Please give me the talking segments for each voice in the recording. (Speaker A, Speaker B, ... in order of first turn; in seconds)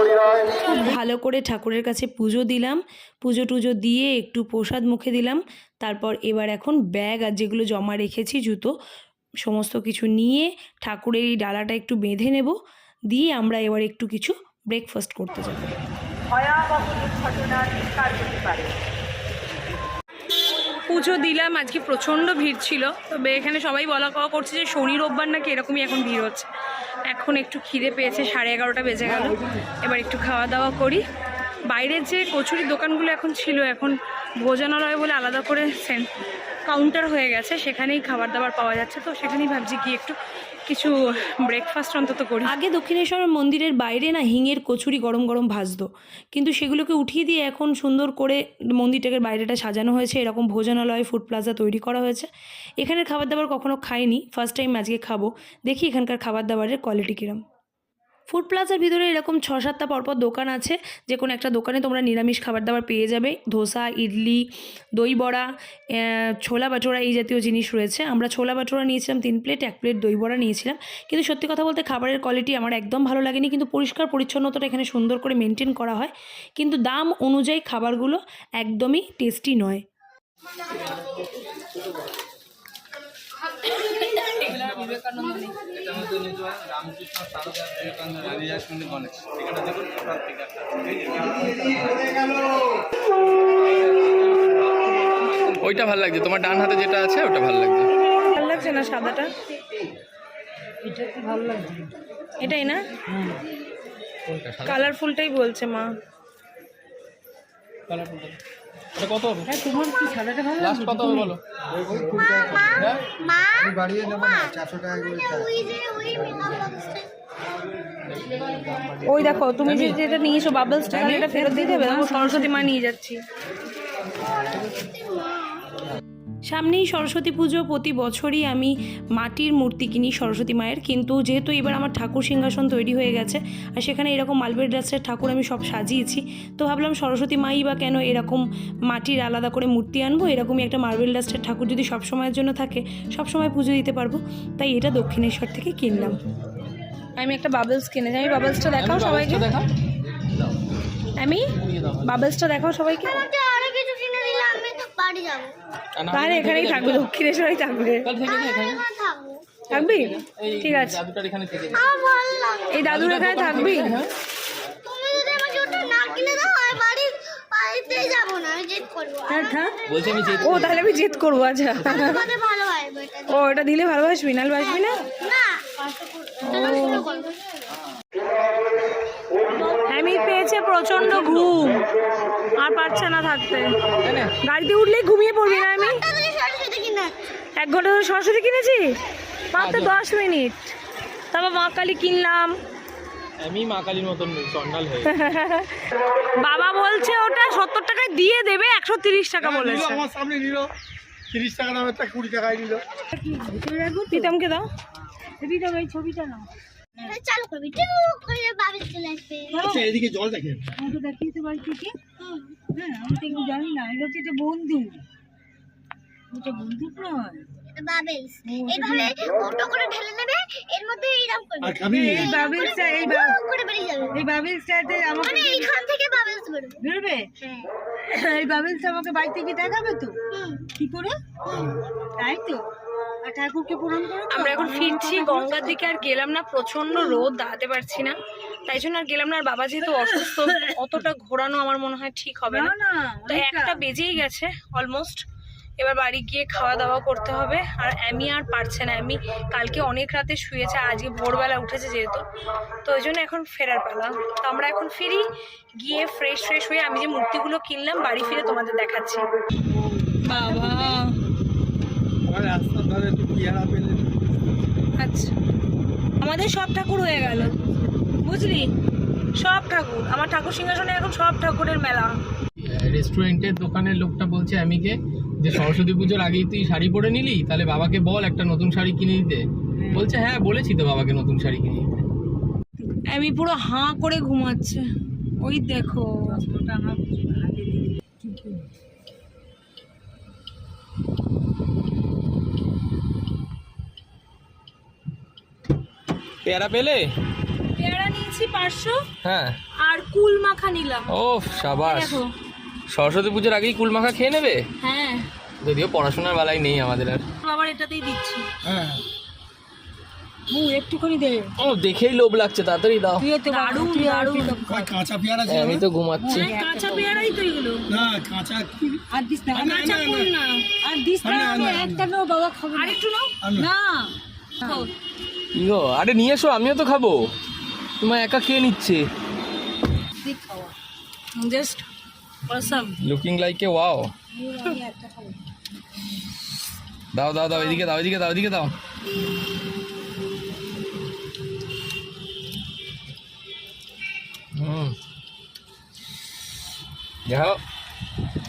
Speaker A: 0.6-8.7, 9.4-12.5, 13.1-15.7, 16.3-18.7, 20.9-26.5, 27.1-31.0, 31.7-36.1, 36.7-40.1, 40.7-52.3, 52.8-57.4, 58.3-64.4, 65.0-79.8, 84.0-85.6, 98.0-99.3, 102.4-102.8, 104.6-105.9, 119.0-123.2, 126.5-146.2, 147.2-149.4, 151.2-151.5, 152.0-153.2, 156.1-158.1, 159.7-161.0, 162.7-163.9, 169.3-169.7, 170.4-172.3, 173.3-175.1, 176.4-177.1, 179.8-181.8, 182.6-183.7, 184.4-186.0, 187.6-188.9, 189.5-190.7, 191.3-192.5, 195.1-195.8, 196.4-200.0, 204.1-204.7, 234.3-238.1, 238.7-242.7, 243.2-245.2, 245.8-252.2, 252.8-255.2, 255.8-259.2, 260.2-261.1, 265.0-265.3, 266.2-267.5, 268.2-268.7, 269.4-272.1, 282.9-284.8, 285.4-286.4, 297.8-299.0, 299.8-301.1, 301.8-302.3, 304.8-305.2, 307.4-308.4, 313.4-314.7, 316.3-317.9, 319.6-320.6, 322.7-323.3, 324.6-324.9, 331.4-331.8, 332.5-332.9
Speaker B: 85.7-92.0, 95.5-97.9, 104.3-104.9, 107.9-108.4, 109.0-109.5, 110.5-111.4, 112.8-113.0, 118.1-120.0, 120.9-121.4, 148.5-149.7, 151.6-152.3, 156.0-157.1, 158.0-158.8, 159.7-161.9, 162.8-164.1, 169.9-170.9, 184.0-184.3, 189.5-190.0, 193.4-195.2, 272.6-282.0, 296.4-297.1, 299.2-299.6, 301.1-302.2, 302.9-304.6, 305.6-307.2, 311.6-313.3, 315.4-316.6, 325.5-327.3, 328.0-329.1, 333.0-334.1, 337.1-338.7, 344.6-344.9, 347.3-347.6
Speaker C: 100.8-101.9, 103.0-103.4, 109.5-111.3, 121.4-122.6, 175.8-176.6, 177.2-177.6, 181.0-181.5, 203.1-204.3, 205.4-207.2, 209.5-210.0, 210.8-211.9, 212.7-215.0, 216.3-217.5, 218.4-219.2, 221.9-223.4, 224.1-225.8, 226.8-227.3, 228.1-230.2, 230.7-231.2, 232.2-232.7, 233.2-236.0, 240.2-240.7, 242.5-243.8, 259.8-260.9, 279.8-280.1, 286.3-288.7, 310.5-311.5, 313.2-314.9, 316.2-317.3, 319.1-320.1, 320.7-324.9, 330.2-330.7, 334.3-335.4
Speaker D: 112.0-117.1, 124.7-125.6, 153.1-155.5, 158.2-159.6, 161.7-162.8, 164.8-170.9, 171.8-173.6, 174.6-175.7, 176.5-177.3, 185.4-187.3, 207.0-209.9, 212.2-212.7, 217.7-224.2, 225.2-226.8, 227.4-227.7, 230.3-230.7, 236.9-237.2
Speaker E: 199.4-200.7, 201.3-202.8, 209.7-210.6, 221.6-222.3, 262.3-264.6, 308.6-309.0, 314.6-315.9, 317.9-320.3, 321.2-322.0, 323.4-323.7